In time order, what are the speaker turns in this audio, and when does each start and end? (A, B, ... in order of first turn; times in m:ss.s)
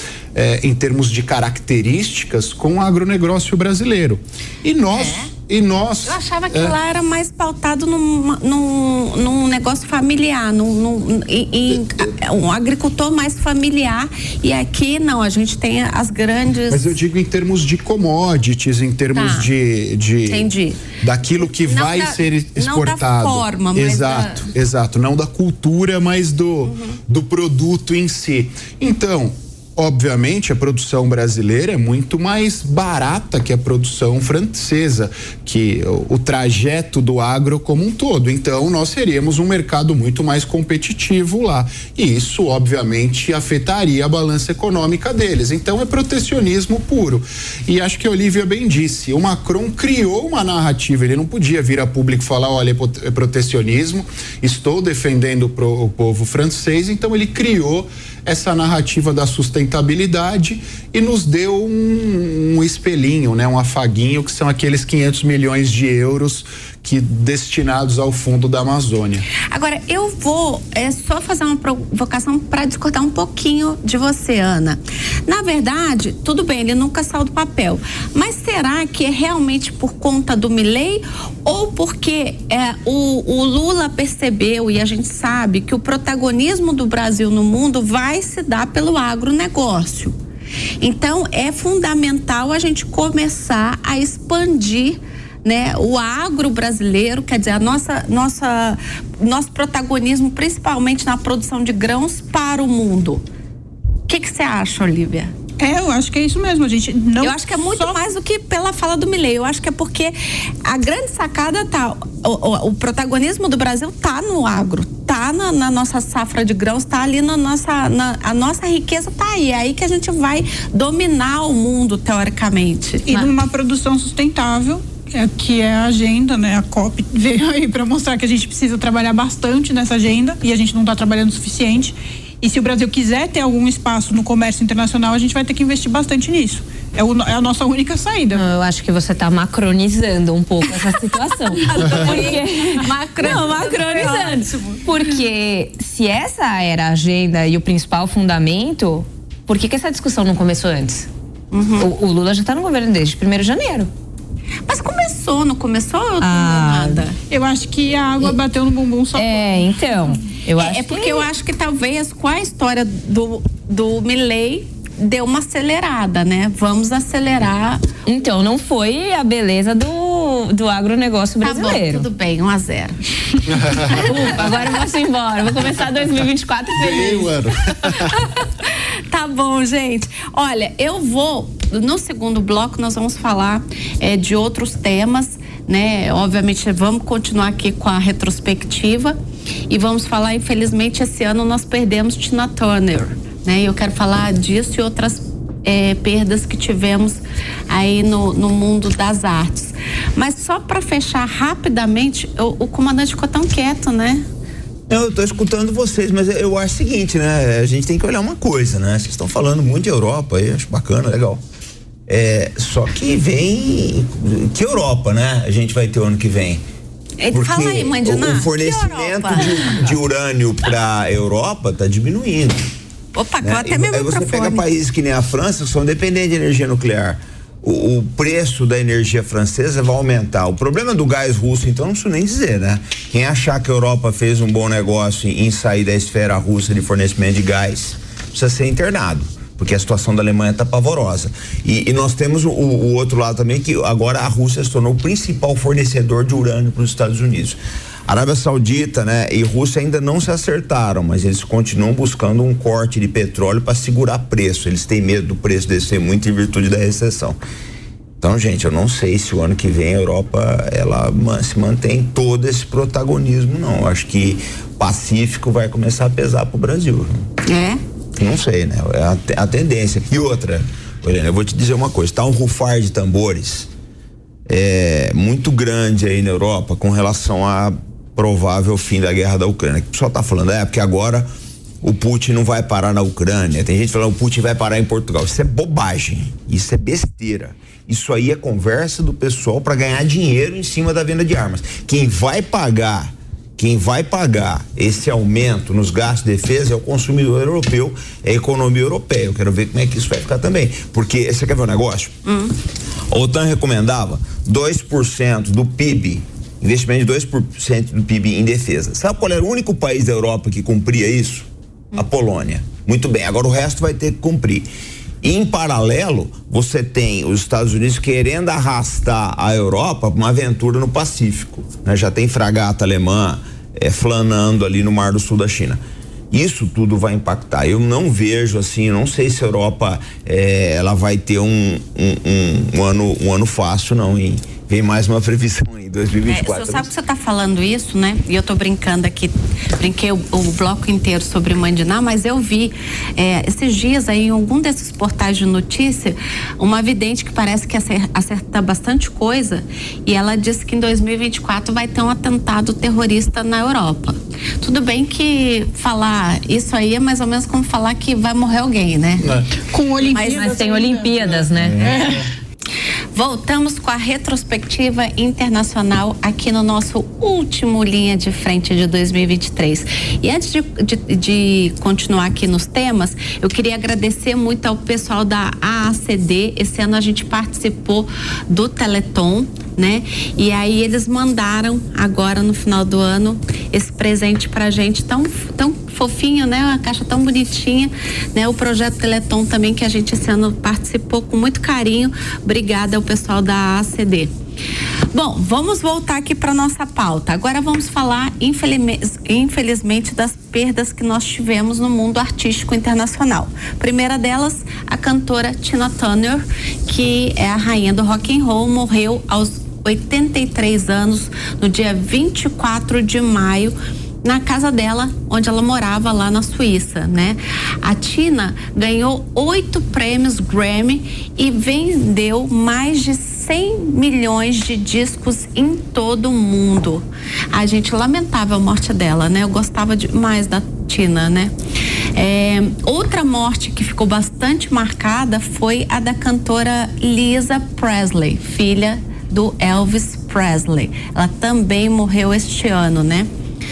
0:00.4-0:06.8 A
0:04.9-0:05.3 B
0:06.1-0:17.0 B
0:16.7-0:20.5 A
0:19.1-0:19.5 B
0:20.3-0:20.8 B
0:21.0-1:09.3 A
0:21.4-0:24.5 B
0:26.6-0:27.0 B
1:09.5-1:30.2 B
1:30.8-1:43.2 B
1:44.1-1:45.3 B
1:45.6-1:48.0 C
1:47.2-2:03.3 B
2:03.1-2:18.4 C
2:18.3-2:31.1 D
2:21.6-2:24.6 B
2:23.9-2:24.8 C
2:31.5-2:31.9 B
2:31.8-2:33.9 D
2:34.7-2:37.2 B
2:36.2-2:37.0 D
2:37.3-2:40.1 C
2:39.2-2:41.3 D
2:40.6-2:47.9 B
2:48.1-2:52.0 D
2:51.4-2:53.0 B
2:53.6-2:54.0 A
2:53.7-2:55.7 B
2:53.9-2:57.3 D
2:56.8-2:58.2 A
2:58.1-3:09.2 B
3:09.7-3:24.2 B
3:24.9-3:31.4 E
3:32.1-3:36.6 E
3:37.2-3:39.7 B
3:37.3-3:42.7 E
3:43.2-3:44.7 B
3:43.4-4:17.4 E
4:18.2-4:27.2 E
4:27.4-4:27.8 B
4:28.2-4:33.7 E
4:34.5-4:41.3 E
4:41.8-5:02.2 E
5:02.3-5:02.6 B
5:03.1-5:14.7 E
5:15.2-5:36.9 E
5:36.3-5:59.3 B
5:59.2-5:59.5 A
5:59.6-6:02.2 C
6:00.0-6:00.6 B
6:00.3-6:01.8 D
6:01.6-6:02.2 A
6:01.8-6:02.1 B
6:03.1-6:34.3 B
6:35.1-7:11.5 B
7:12.2-7:23.3 B